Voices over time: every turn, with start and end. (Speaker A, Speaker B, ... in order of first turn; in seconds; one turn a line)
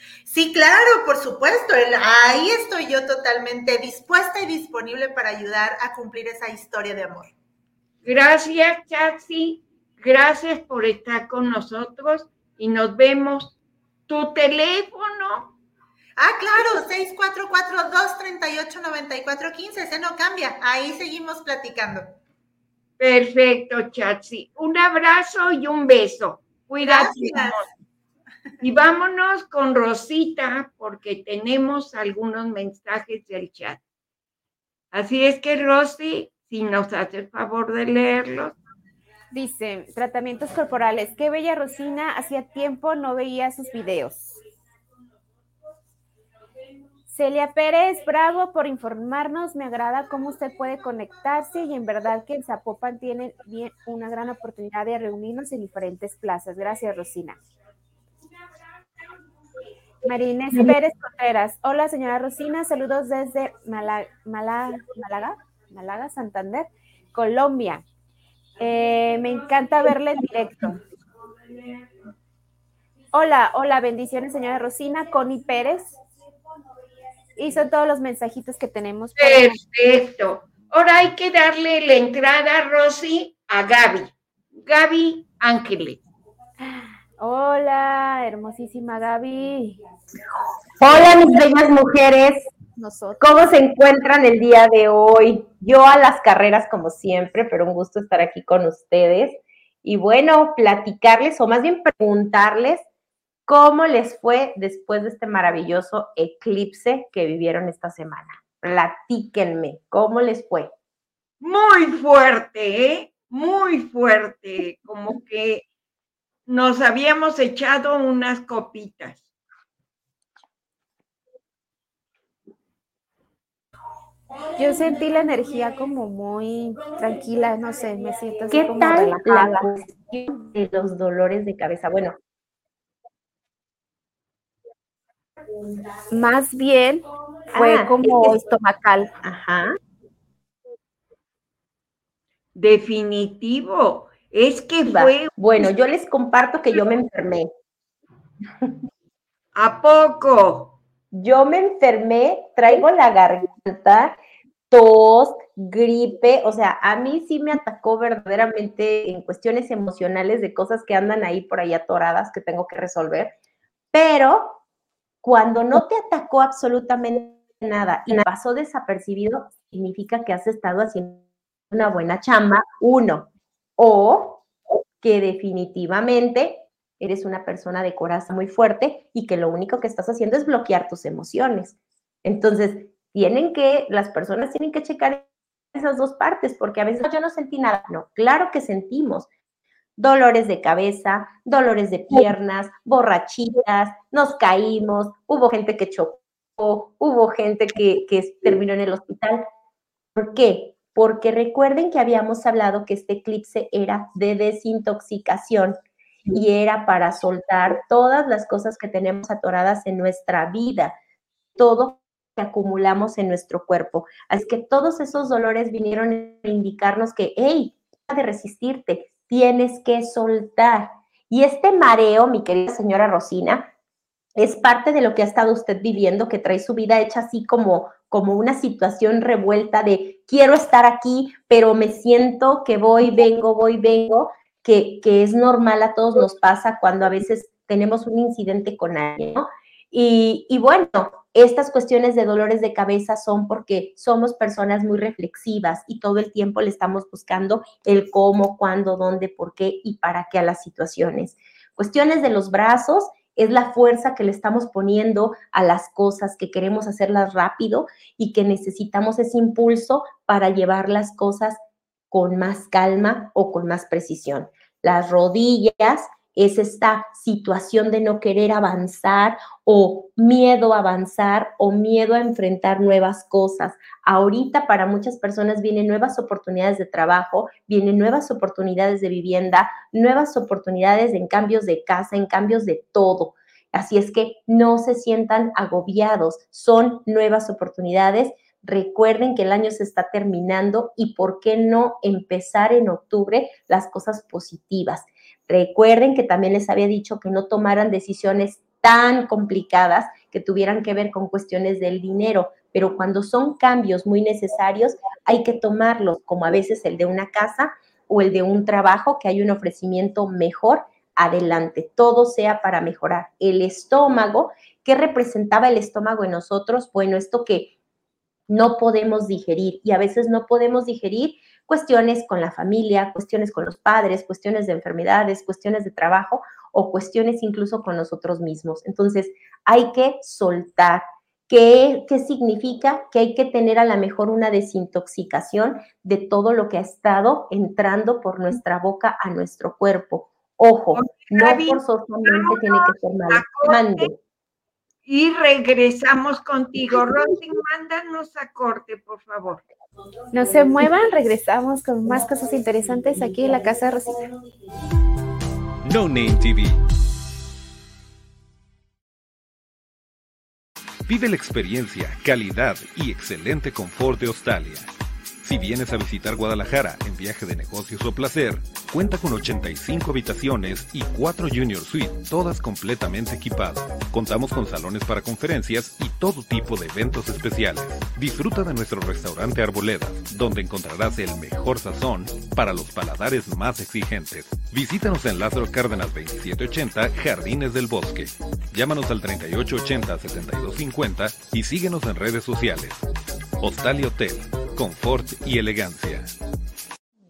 Speaker A: 0.3-7.3
Speaker B: 8.0-13.6
Speaker B: 14.1-15.5
Speaker A: 16.2-22.1
Speaker B: 23.0-27.6
Speaker A: 26.8-27.7
Speaker B: 28.6-33.8
Speaker B: 34.9-38.5
Speaker C: 39.3-44.3
Speaker C: 47.1-57.4
Speaker C: 60.0-67.8
Speaker C: 68.6-70.8
Speaker C: 73.1-76.0
Speaker C: 77.4-79.6
Speaker B: 79.2-86.0
Speaker C: 86.6-89.8
Speaker D: 90.8-92.5
Speaker C: 90.9-91.3
Speaker C: 92.8-93.5
Speaker D: 93.2-102.8
Speaker D: 103.5-110.7
Speaker B: 111.4-115.7
Speaker B: 116.5-119.3
Speaker C: 124.6-129.7
Speaker D: 128.5-132.2
Speaker C: 136.1-139.1
Speaker D: 137.5-138.4
Speaker D: 139.2-139.8
Speaker B: 142.6-145.3
Speaker D: 144.8-147.5
Speaker B: 149.6-150.8
Speaker D: 151.1-154.2
Speaker D: 154.7-163.3
Speaker D: 163.9-164.6
Speaker D: 165.2-174.4
Speaker D: 175.0-189.3
Speaker D: 190.0-199.5
Speaker D: 200.2-210.9
Speaker D: 211.6-223.7
Speaker D: 224.4-261.6
Speaker D: 262.1-317.7
Speaker D: 318.5-344.2
Speaker B: 340.9-344.1
Speaker B: 345.1-349.6
Speaker C: 350.3-354.2
Speaker E: 355.9-356.8
Speaker E: 361.1-364.9
Speaker E: 365.4-393.1
Speaker E: 393.6-396.3